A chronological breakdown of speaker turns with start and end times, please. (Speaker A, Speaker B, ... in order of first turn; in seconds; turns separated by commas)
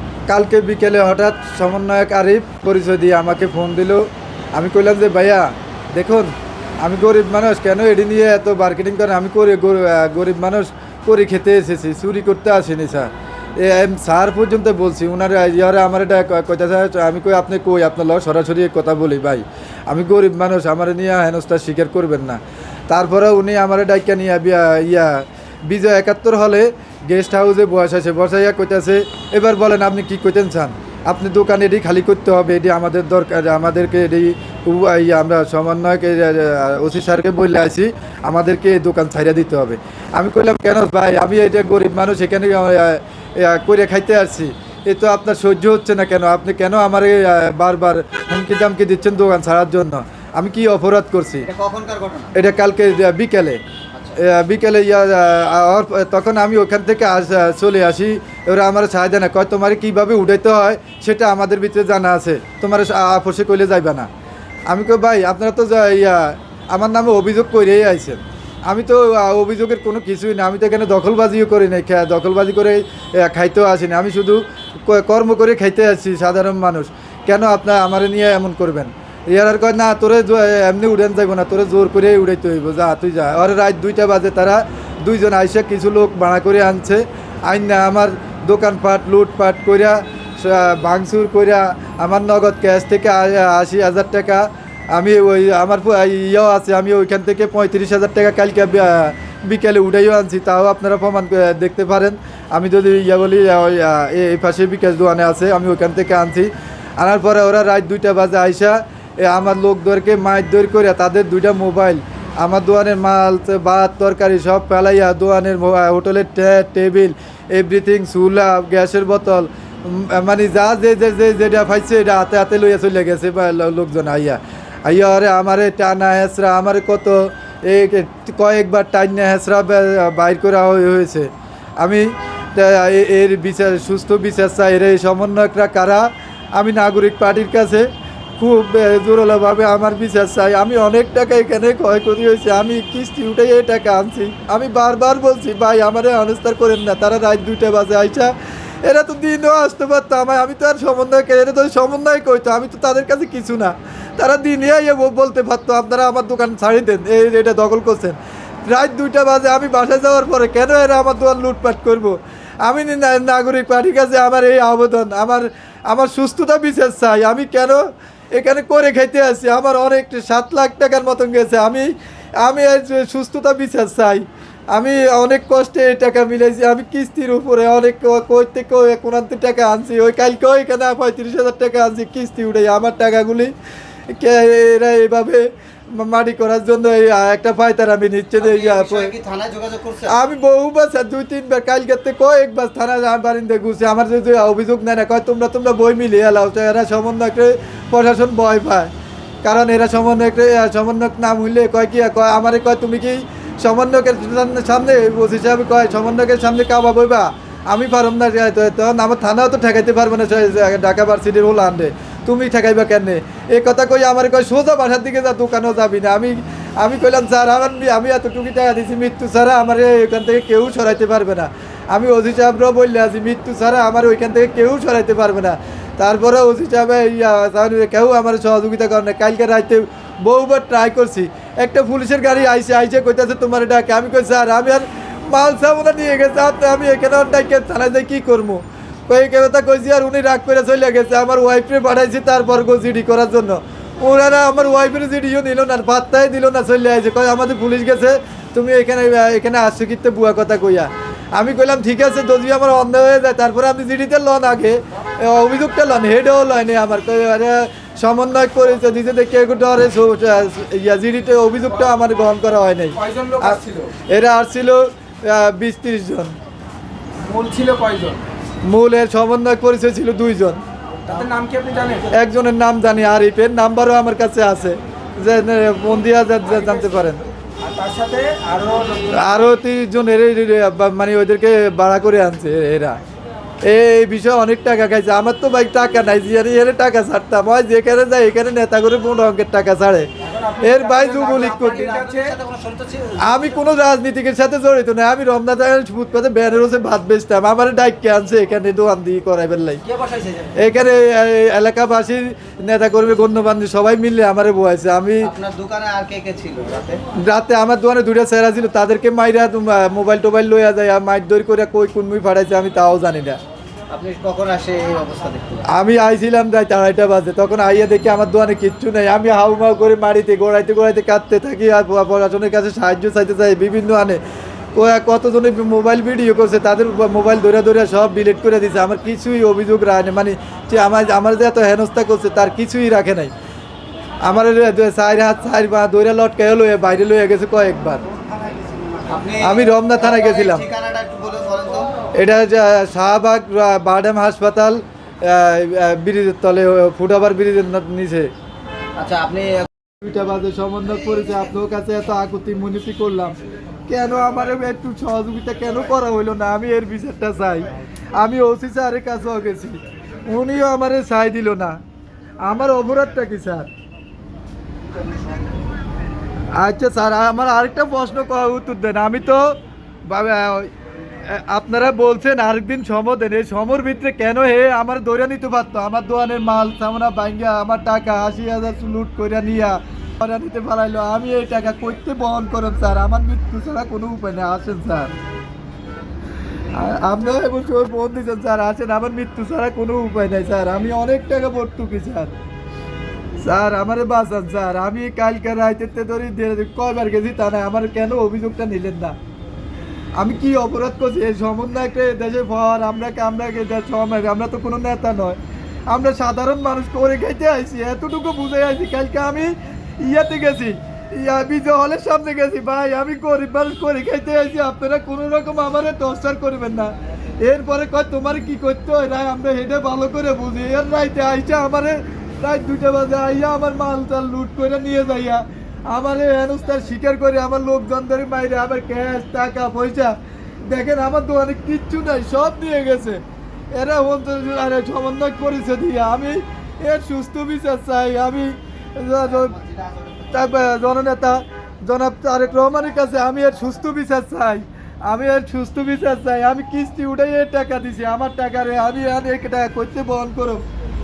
Speaker A: 0.3-51.5, Speaker B: 51.5-52.3, Speaker A: 52.3-53.6, Speaker A: 54.1-64.1, Speaker A: 64.7-131.3, Speaker A: 131.8-167.8, Speaker A: 168.3-171.9, Speaker A: 172.4-183.5, Speaker A: 184.1-189.1, Speaker B: 188.4-190.1, Speaker A: 190.1-198.9, Speaker A: 199.4-266.3, Speaker C: 263.0-263.9, Speaker C: 267.2-268.2, Speaker A: 268.6-270.6, Speaker C: 271.1-272.1, Speaker A: 272.1-277.3, Speaker C: 277.6-279.3, Speaker A: 279.1-283.0, Speaker A: 283.6-290.1, Speaker C: 290.2-292.4, Speaker A: 290.6-291.9, Speaker B: 291.4-293.5, Speaker A: 293.2-299.8, Speaker B: 299.9-300.5, Speaker A: 300.6-305.3, Speaker B: 305.2-307.0, Speaker A: 307.2-313.4, Speaker B: 313.9-315.6, Speaker A: 315.7-324.2, Speaker A: 324.7-333.3, Speaker A: 334.2-338.0, Speaker B: 339.1-341.9, Speaker A: 339.4-340.6, Speaker A: 342.1-348.3, Speaker B: 348.9-349.7, Speaker A: 350.0-353.4, Speaker A: 353.9-361.8, Speaker A: 362.4-363.7, Speaker A: 366.5-369.5, Speaker A: 370.1-370.7, Speaker A: 371.2-385.1, Speaker A: 386.7-392.3, Speaker A: 393.4-399.1, Speaker A: 400.2-433.2, Speaker A: 433.7-439.6, Speaker B: 439.2-440.8, Speaker A: 440.3-450.6